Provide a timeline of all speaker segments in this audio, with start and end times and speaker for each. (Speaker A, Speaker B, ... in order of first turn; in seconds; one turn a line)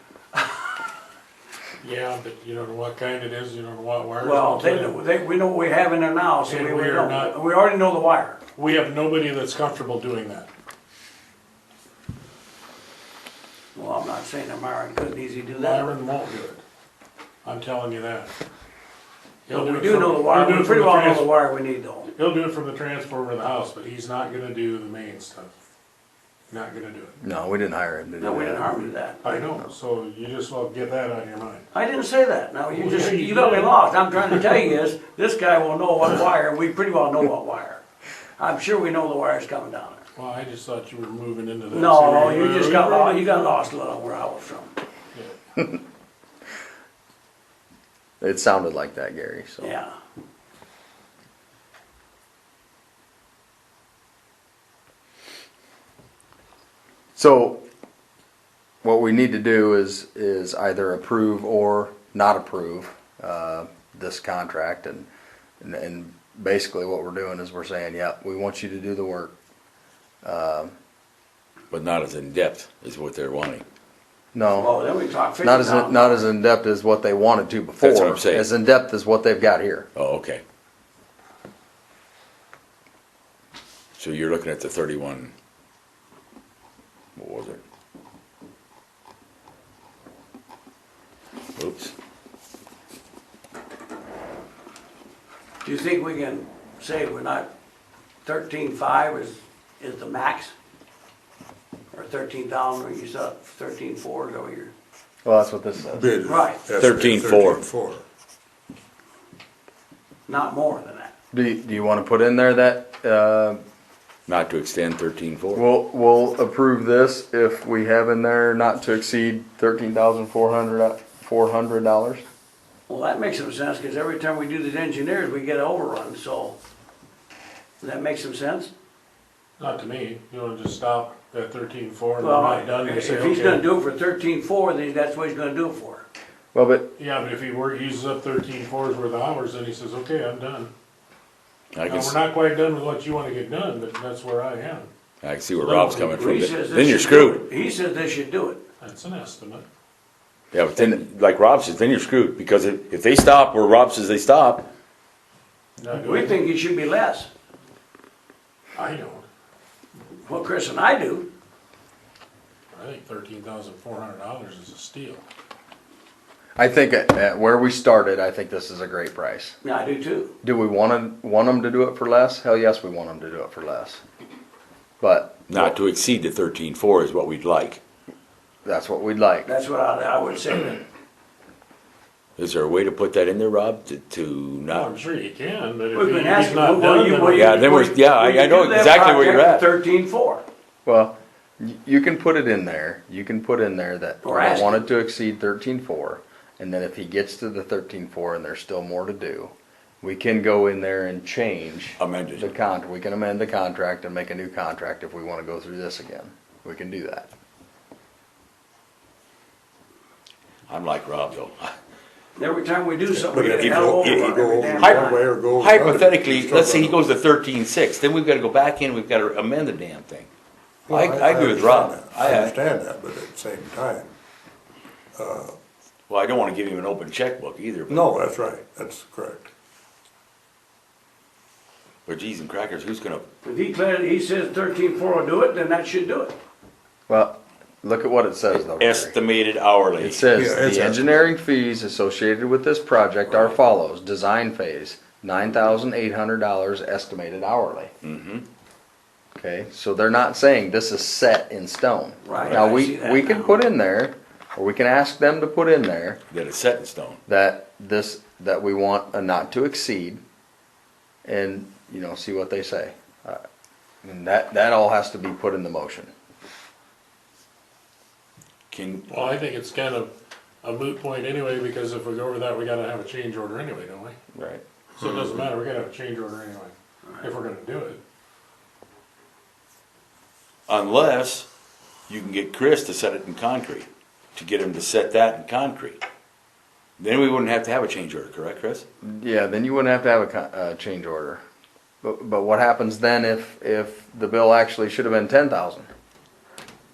Speaker A: 1.8-5.0
Speaker B: 4.2-8.4
Speaker A: 6.5-7.3
Speaker A: 8.6-10.5
Speaker B: 13.7-15.9
Speaker A: 15.5-16.6
Speaker A: 17.4-18.3
Speaker A: 19.5-21.3
Speaker B: 19.5-22.1
Speaker A: 22.1-25.5
Speaker A: 26.5-27.1
Speaker C: 27.2-28.7
Speaker B: 28.2-29.3
Speaker A: 29.2-31.6
Speaker B: 31.7-37.8
Speaker A: 32.7-34.4
Speaker B: 38.4-40.0
Speaker A: 40.2-43.6
Speaker B: 41.7-44.7
Speaker C: 48.2-49.7
Speaker B: 49.6-49.9
Speaker C: 57.2-57.6
Speaker C: 58.8-65.1
Speaker C: 65.6-69.3
Speaker C: 70.2-70.7
Speaker D: 71.7-73.6
Speaker C: 74.3-74.8
Speaker B: 74.6-76.3
Speaker C: 75.4-79.9
Speaker D: 77.8-78.5
Speaker D: 80.0-80.4
Speaker D: 84.0-85.3
Speaker D: 87.2-87.6
Speaker D: 91.6-91.9
Speaker B: 95.6-97.5
Speaker B: 98.2-100.5
Speaker B: 101.9-104.7
Speaker C: 105.2-106.1
Speaker E: 105.9-108.0
Speaker B: 106.2-106.6
Speaker D: 106.7-107.6
Speaker B: 110.3-111.1
Speaker C: 111.3-113.6
Speaker D: 114.3-115.6
Speaker C: 115.5-122.2
Speaker B: 122.9-126.6
Speaker B: 127.8-128.7
Speaker A: 129.6-133.6
Speaker B: 132.2-136.1
Speaker C: 136.5-136.9
Speaker A: 137.0-140.7
Speaker D: 141.7-142.2
Speaker A: 141.9-144.9
Speaker D: 145.2-147.5
Speaker A: 145.6-146.4
Speaker B: 146.2-148.6
Speaker A: 148.8-149.7
Speaker D: 150.5-154.7
Speaker A: 155.8-156.4
Speaker B: 155.9-157.3
Speaker A: 158.8-159.2
Speaker B: 160.2-161.3
Speaker A: 162.7-165.2
Speaker C: 166.6-169.6
Speaker B: 169.6-170.3
Speaker C: 170.4-174.0
Speaker C: 175.0-175.7
Speaker D: 175.5-177.8
Speaker C: 178.7-179.5
Speaker B: 179.5-180.8
Speaker D: 182.4-184.9
Speaker A: 184.7-187.7
Speaker B: 185.9-190.4
Speaker D: 187.3-189.7
Speaker C: 190.9-207.3
Speaker B: 194.2-194.8
Speaker D: 202.0-202.5
Speaker D: 210.7-211.7
Speaker B: 212.4-215.2
Speaker E: 213.2-217.1
Speaker D: 213.4-220.3
Speaker E: 220.9-224.1
Speaker D: 220.9-222.6
Speaker E: 225.2-225.6
Speaker D: 226.1-228.1
Speaker E: 227.9-229.5
Speaker D: 232.1-233.2
Speaker B: 233.4-236.4
Speaker C: 237.1-239.2
Speaker D: 238.8-240.3
Speaker C: 240.0-247.9
Speaker E: 240.3-241.1
Speaker B: 243.3-243.5
Speaker D: 248.0-248.4
Speaker C: 249.4-256.2
Speaker B: 252.2-253.6
Speaker D: 256.3-257.2
Speaker C: 257.3-260.2
Speaker C: 261.2-263.4
Speaker C: 264.0-266.1
Speaker D: 268.7-269.2
Speaker A: 269.1-270.1
Speaker A: 270.6-274.1
Speaker C: 274.3-274.6
Speaker A: 275.0-278.0
Speaker D: 280.7-281.5
Speaker D: 282.1-286.0
Speaker D: 287.0-288.8
Speaker C: 289.0-291.4
Speaker C: 292.0-295.9